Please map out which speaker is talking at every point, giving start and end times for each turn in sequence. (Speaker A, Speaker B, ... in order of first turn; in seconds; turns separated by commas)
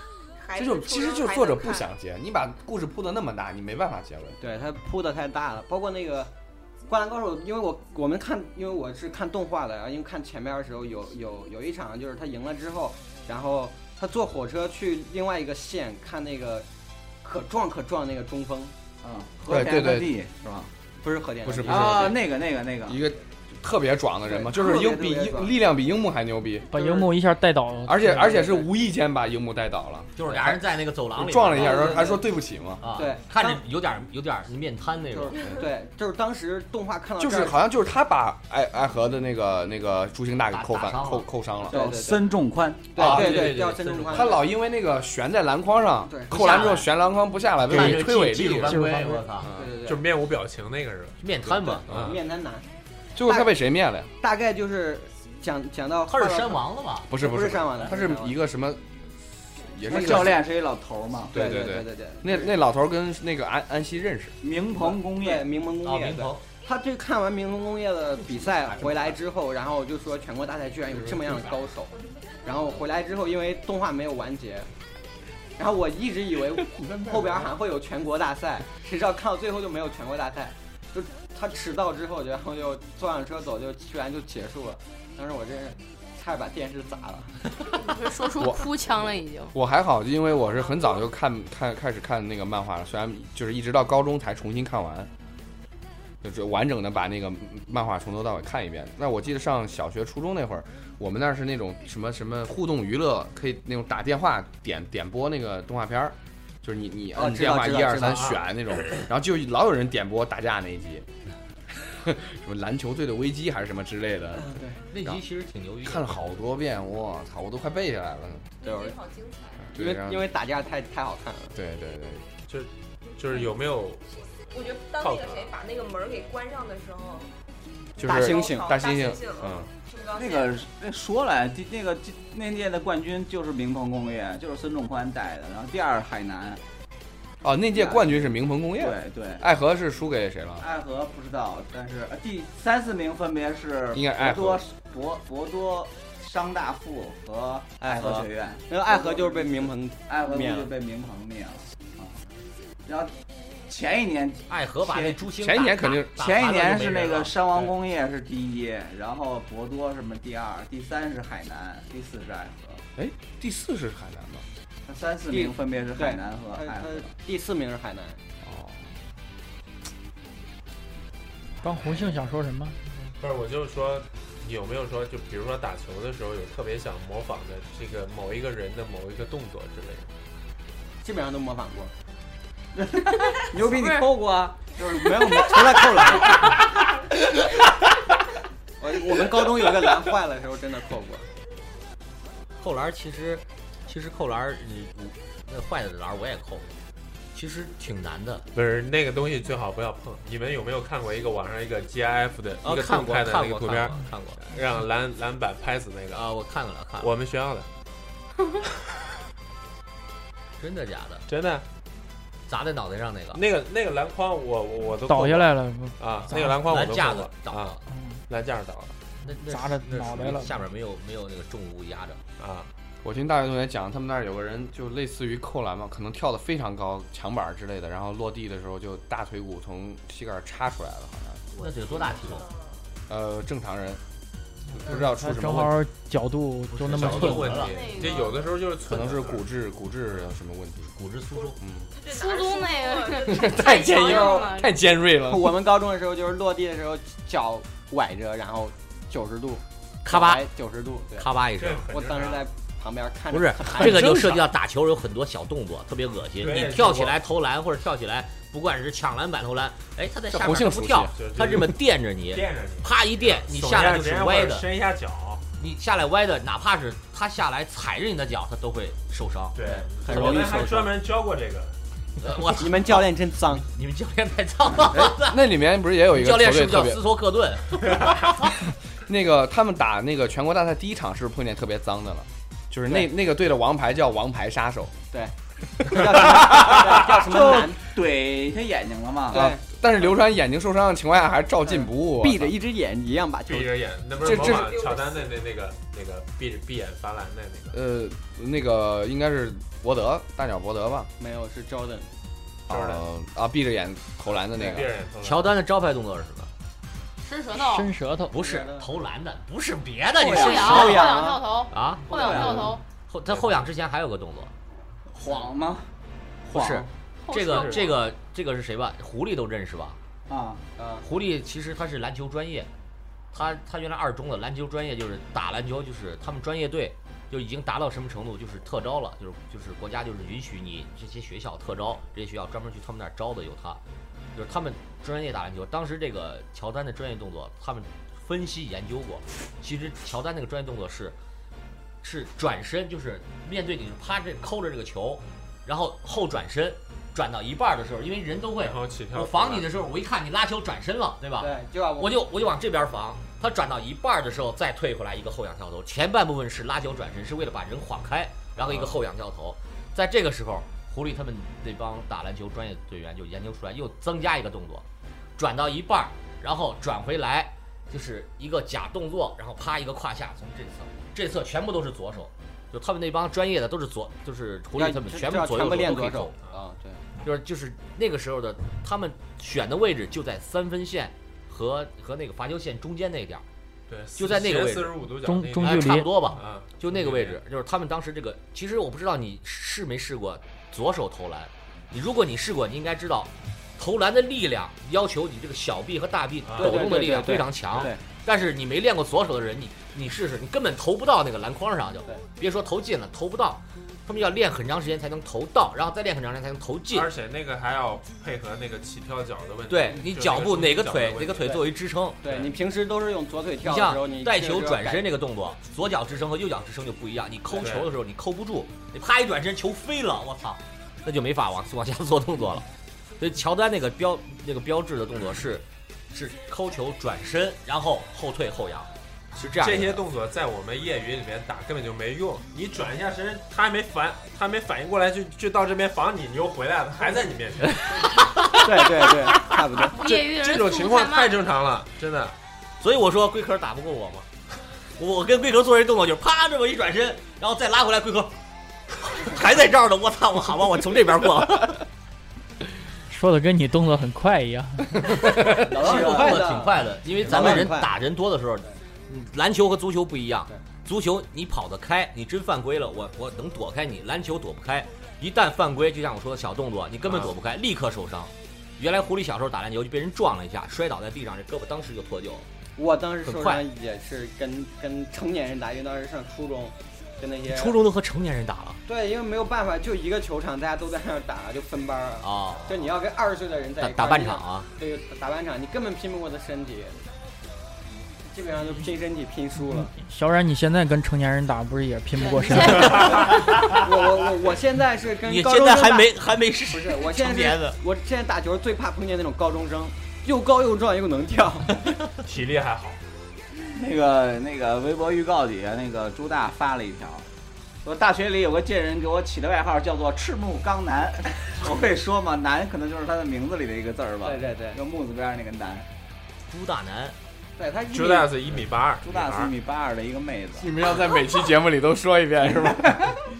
Speaker A: 0.4-1.9, Speaker B: 0.6-4.4, Speaker C: 4.4-6.3, Speaker C: 6.9-16.6, Speaker C: 17.2-18.7, Speaker D: 19.0-20.7, Speaker B: 19.5-20.1, Speaker C: 21.0-22.1, Speaker B: 21.4-22.2, Speaker D: 21.6-23.0, Speaker B: 22.9-26.7, Speaker D: 24.3-25.3, Speaker C: 24.6-25.4, Speaker E: 26.7-28.3, Speaker C: 26.7-27.1, Speaker B: 27.8-30.6, Speaker C: 28.1-28.7, Speaker F: 30.1-32.1, Speaker B: 31.1-32.8, Speaker C: 31.6-32.2, Speaker F: 32.8-35.4, Speaker C: 32.9-33.6, Speaker C: 35.1-37.6, Speaker B: 37.2-41.8, Speaker F: 40.5-41.3, Speaker C: 41.7-42.3, Speaker D: 41.7-43.0, Speaker C: 42.9-44.5, Speaker F: 43.0-44.4, Speaker B: 43.0-48.8, Speaker C: 46.0-46.8, Speaker F: 46.3-46.9, Speaker F: 47.7-49.5, Speaker G: 47.8-48.7, Speaker E: 48.7-49.2, Speaker B: 49.4-49.7, Speaker C: 49.5-50.0, Speaker G: 49.8-51.2, Speaker F: 51.2-51.9, Speaker C: 51.5-52.6, Speaker G: 51.9-52.1, Speaker B: 53.1-54.1, Speaker C: 54.2-58.3, Speaker F: 56.1-57.1, Speaker B: 57.1-58.8, Speaker B: 59.4-60.4, Speaker D: 59.9-61.3, Speaker C: 59.9-60.3, Speaker C: 61.3-62.5, Speaker B: 61.3-64.4, Speaker D: 64.4-65.5, Speaker C: 64.8-71.9, Speaker F: 65.8-66.4, Speaker F: 68.3-69.2, Speaker C: 72.4-74.7, Speaker C: 75.6-87.5, Speaker H: 87.8-89.5, Speaker B: 88.4-88.8, Speaker B: 89.5-95.1, Speaker B: 96.2-111.1, Speaker C: 107.1-108.3, Speaker B: 111.8-115.2, Speaker C: 114.4-114.8, Speaker F: 114.9-116.4, Speaker B: 115.8-118.5, Speaker A: 118.6-119.8, Speaker C: 118.6-119.0, Speaker B: 119.6-120.3, Speaker C: 119.7-121.5, Speaker B: 121.5-122.3, Speaker G: 122.5-124.0, Speaker A: 124.5-127.3, Speaker G: 125.0-125.5, Speaker B: 128.0-129.7, Speaker A: 128.0-130.7, Speaker C: 128.0-128.7, Speaker D: 130.1-136.6, Speaker B: 137.4-140.7, Speaker D: 137.7-139.4, Speaker D: 140.6-152.2, Speaker B: 143.9-144.6, Speaker C: 147.8-150.7, Speaker D: 152.8-153.1, Speaker D: 153.7-155.2, Speaker F: 154.5-157.3, Speaker B: 155.4-156.2, Speaker D: 156.2-162.8, Speaker B: 162.9-164.4, Speaker D: 164.9-167.1, Speaker C: 165.3-168.2, Speaker B: 168.4-168.9, Speaker E: 171.6-173.1, Speaker G: 173.2-180.1, Speaker C: 181.0-181.9, Speaker D: 182.7-186.3, Speaker H: 183.7-184.1, Speaker C: 184.8-186.6, Speaker C: 188.8-191.3, Speaker F: 192.6-196.7, Speaker F: 197.3-198.4, Speaker G: 198.5-206.3, Speaker F: 202.6-204.5, Speaker F: 206.1-207.1, Speaker G: 207.0-207.7, Speaker F: 210.6-211.2, Speaker G: 211.3-211.6, Speaker F: 212.5-213.4, Speaker G: 213.3-218.9, Speaker E: 215.1-216.6, Speaker F: 216.6-217.8, Speaker E: 217.9-218.2, Speaker F: 219.2-222.2, Speaker E: 219.4-220.6, Speaker G: 222.4-222.7, Speaker B: 223.0-231.4, Speaker F: 231.6-232.5, Speaker A: 232.2-232.7, Speaker B: 233.1-234.0, Speaker B: 234.7-235.8, Speaker E: 234.8-237.6, Speaker F: 236.7-238.1, Speaker G: 236.8-239.4, Speaker H: 237.6-238.5, Speaker B: 238.8-240.9, Speaker F: 240.9-241.6, Speaker A: 241.3-244.4, Speaker B: 241.6-241.9, Speaker H: 242.1-244.7, Speaker B: 243.3-245.6, Speaker C: 245.3-251.3, Speaker F: 250.0-250.4, Speaker F: 251.2-251.8, Speaker G: 251.6-252.4, Speaker C: 251.9-254.1, Speaker F: 253.3-264.7, Speaker G: 256.4-257.2, Speaker B: 260.3-261.1, Speaker G: 261.1-265.4, Speaker F: 265.6-270.6, Speaker G: 269.5-271.8, Speaker C: 269.6-271.0, Speaker F: 272.2-275.5, Speaker C: 272.4-273.6, Speaker B: 274.9-277.0, Speaker F: 276.1-278.5, Speaker B: 279.1-284.9, Speaker C: 285.1-287.9, Speaker D: 287.2-289.5, Speaker C: 289.3-289.6, Speaker B: 289.3-292.5, Speaker C: 291.6-293.9, Speaker G: 293.5-297.8, Speaker B: 294.2-294.8, Speaker A: 294.2-295.3, Speaker B: 297.7-301.1, Speaker C: 301.2-302.1, Speaker G: 302.7-303.0, Speaker B: 302.7-304.9, Speaker G: 304.5-305.5, Speaker F: 305.2-306.5, Speaker H: 307.2-307.9, Speaker E: 307.5-308.3, Speaker F: 308.3-311.2, Speaker C: 308.3-308.9, Speaker D: 310.1-311.0, Speaker H: 310.3-312.8, Speaker C: 310.5-311.4, Speaker F: 311.7-314.5, Speaker D: 312.1-312.7, Speaker G: 313.3-313.6, Speaker D: 315.1-315.9, Speaker D: 316.4-316.9, Speaker F: 316.5-320.0, Speaker H: 317.2-318.0, Speaker G: 317.5-317.8, Speaker D: 320.3-320.6, Speaker C: 320.8-321.1, Speaker F: 321.0-322.7, Speaker F: 323.3-333.8, Speaker F: 334.3-341.1, Speaker F: 342.0-364.8, Speaker G: 348.6-349.7, Speaker C: 351.4-352.2, Speaker G: 358.6-358.9, Speaker F: 365.4-376.3, Speaker C: 374.8-377.1, Speaker F: 377.2-383.4, Speaker G: 383.9-387.4, Speaker F: 384.1-385.0, Speaker E: 385.2-386.1, Speaker F: 385.6-407.1, Speaker G: 396.4-397.0, Speaker C: 396.6-398.0, Speaker G: 406.9-411.5, Speaker F: 409.7-412.2, Speaker C: 412.2-415.1, Speaker G: 412.2-412.5, Speaker F: 413.6-422.6, Speaker G: 417.5-417.9, Speaker F: 423.2-430.0, Speaker G: 429.6-438.3, Speaker F: 438.0-439.4, Speaker C: 438.6-440.1, Speaker H: 439.9-441.4, Speaker G: 440.0-442.3, Speaker F: 442.8-444.3, Speaker F: 445.0-448.3, Speaker F: 449.0-451.8, Speaker E: 453.1-455.2, Speaker F: 455.1-472.4, Speaker C: 455.5-458.0, Speaker D: 455.6-456.5, Speaker G: 457.2-457.6, Speaker G: 467.1-467.3, Speaker C: 472.8-477.8, Speaker F: 473.2-473.6, Speaker F: 477.5-478.8, Speaker C: 478.9-487.0, Speaker F: 482.2-482.9, Speaker F: 483.8-484.7, Speaker C: 488.3-489.9, Speaker E: 489.7-493.4, Speaker G: 492.7-493.0, Speaker C: 492.8-496.1, Speaker F: 493.1-493.4, Speaker F: 495.2-497.8, Speaker C: 496.7-501.8, Speaker G: 502.2-503.0, Speaker D: 503.7-507.2, Speaker D: 507.8-515.9, Speaker C: 514.2-514.8, Speaker F: 516.5-517.1, Speaker C: 517.6-518.5, Speaker G: 517.9-519.5, Speaker D: 519.0-520.8, Speaker B: 520.6-523.2, Speaker D: 522.6-523.0